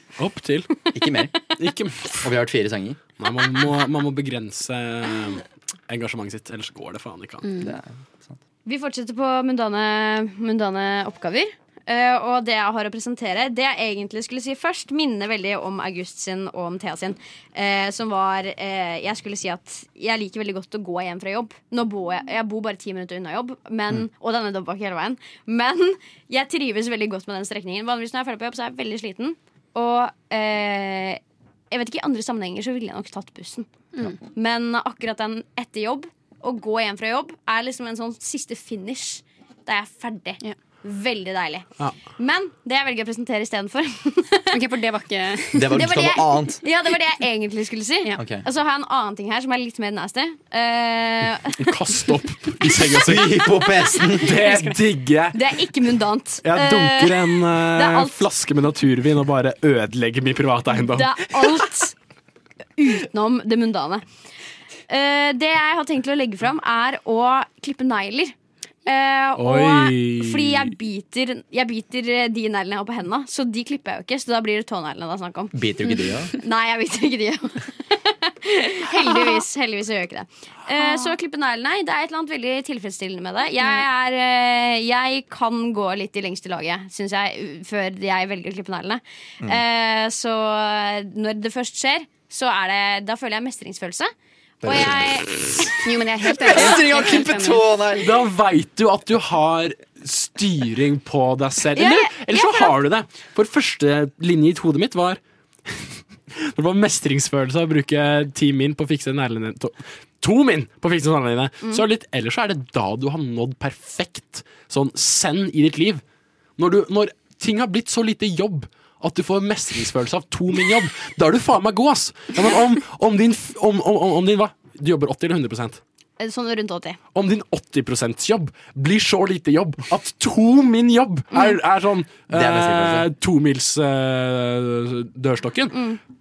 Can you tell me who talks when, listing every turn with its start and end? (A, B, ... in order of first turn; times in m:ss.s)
0:00.2-0:00.7 A
0:00.9-0:01.4 B
0:01.6-0:02.3 A
0:02.2-0:03.0 B
0:03.2-0:07.4 A
0:07.4-0:07.7 C
0:07.6-0:08.4 B
0:08.6-0:44.6 D
0:44.5-0:45.8 C
0:45.5-0:46.6 B
0:45.7-0:51.6 D
0:48.2-0:48.4 B
0:51.6-0:55.4 A
0:52.9-0:54.5 B
0:54.5-0:54.7 C
0:55.3-0:58.2 D
0:56.4-1:01.6 A
1:00.8-1:02.0 D
1:02.8-1:04.0 D
1:04.9-1:08.4 D
1:08.9-1:15.6 D
1:09.4-1:10.7 A
1:15.5-1:16.3 B
1:16.3-1:34.1 D
1:18.9-1:19.4 C
1:20.8-1:21.2 C
1:34.6-1:35.5 B
1:34.6-1:35.7 D
1:35.8-1:37.6 C
1:36.3-1:38.2 B
1:38.0-1:56.0 A
1:41.8-1:42.8 D
1:56.6-2:05.8 A
2:06.2-2:07.0 D
2:07.2-2:15.8 A
2:11.3-2:11.6 D
2:12.3-2:13.1 B
2:15.7-2:16.0 D